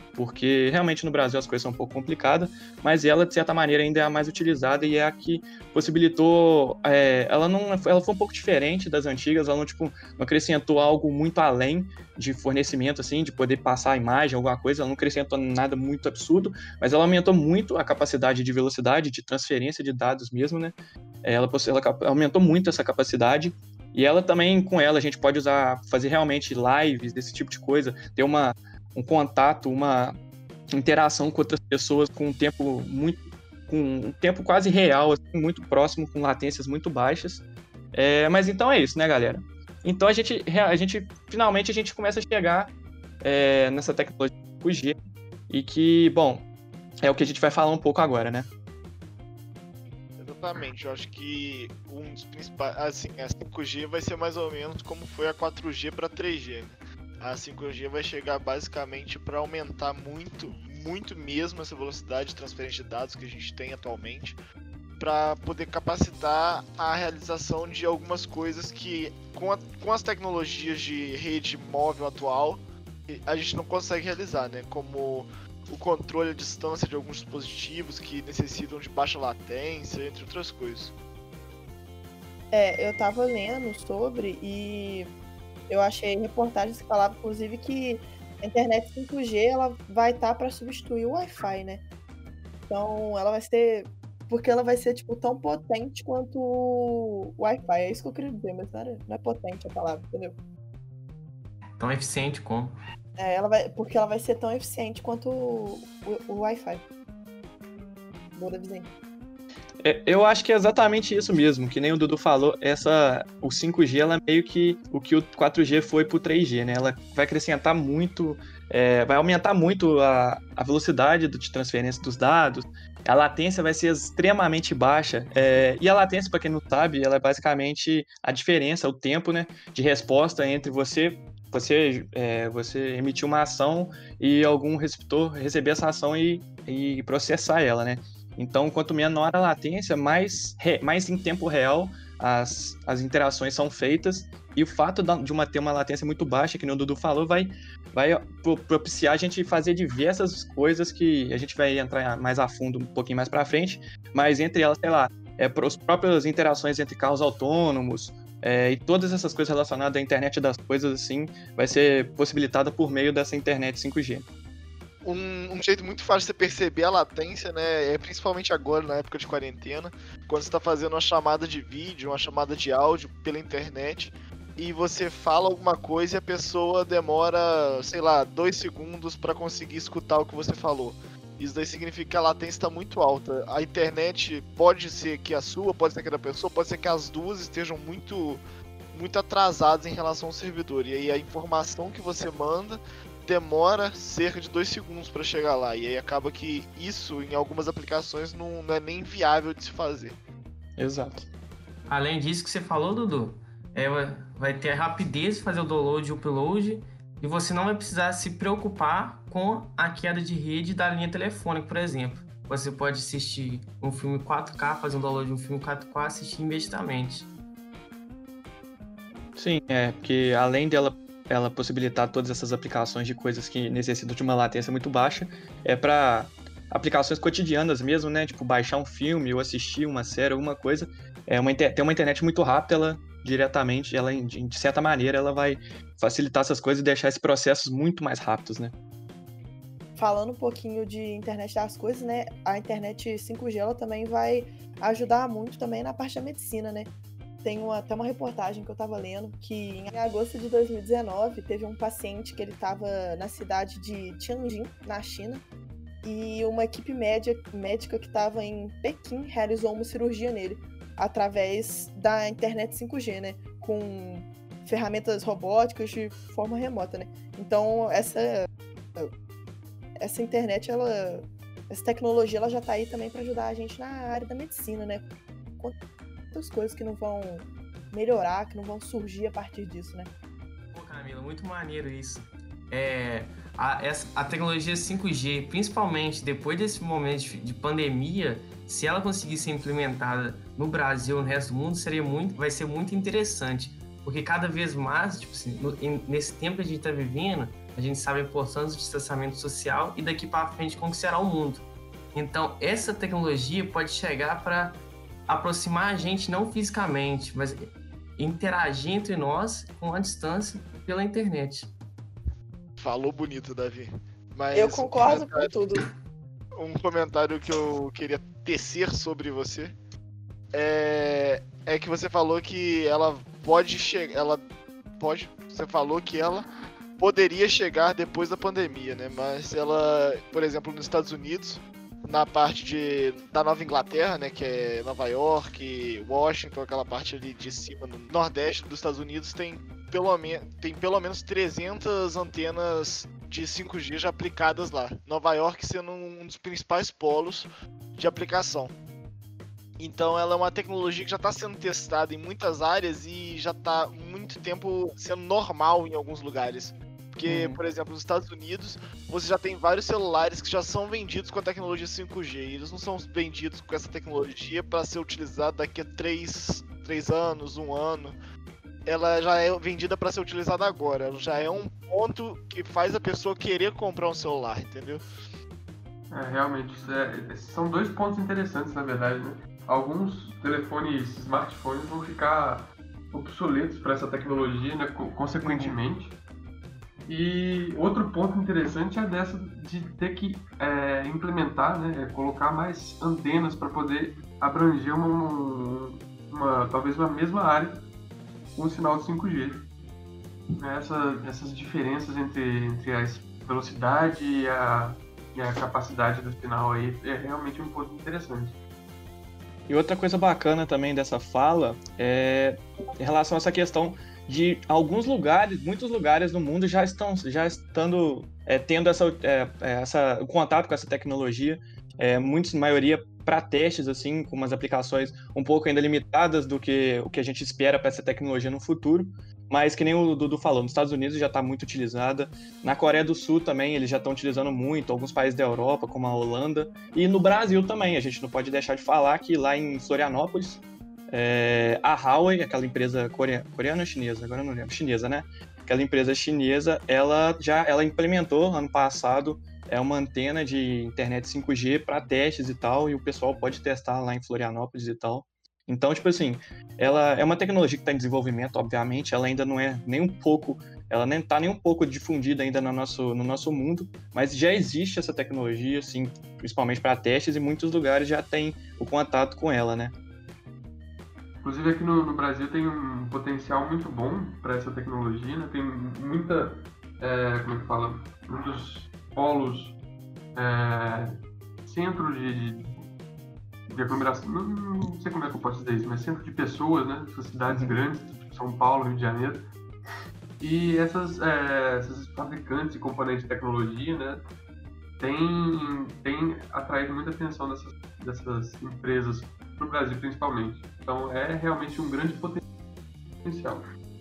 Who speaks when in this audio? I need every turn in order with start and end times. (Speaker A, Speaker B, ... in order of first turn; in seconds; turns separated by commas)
Speaker A: 0.1-30.2, Speaker A: 30.7-45.0, Speaker A: 45.5-46.5, Speaker A: 47.0-48.5, Speaker B: 50.2-64.4, Speaker B: 65.0-81.0, Speaker C: 82.5-85.1, Speaker C: 85.7-91.8, Speaker C: 92.7-100.4, Speaker D: 101.8-102.8, Speaker C: 103.2-106.8, Speaker C: 108.3-108.9, Speaker A: 109.8-164.3, Speaker B: 165.0-188.4, Speaker B: 188.9-200.2, Speaker A: 200.8-201.3, Speaker D: 201.9-217.3, Speaker A: 219.4-238.7, Speaker C: 240.0-246.9, Speaker C: 247.4-255.4, Speaker C: 256.0-269.1, Speaker C: 270.0-275.0, Speaker C: 276.3-280.1, Speaker D: 280.7-311.7, Speaker B: 312.8-315.5, Speaker C: 314.5-315.9, Speaker B: 316.6-319.7, Speaker B: 320.5-324.4, Speaker B: 325.0-348.7, Speaker B: 349.8-368.1, Speaker A: 357.3-357.6, Speaker B: 368.9-375.0, Speaker E: 376.1-386.2, Speaker A: 385.4-385.8, Speaker E: 387.1-397.8, Speaker E: 398.6-399.6, Speaker E: 400.6-408.6, Speaker A: 409.7-469.9, Speaker E: 471.4-479.8, Speaker E: 480.4-482.8, Speaker E: 483.7-489.4, Speaker A: 487.5-487.8, Speaker E: 490.4-494.2, Speaker E: 495.0-502.4, Speaker E: 503.2-503.6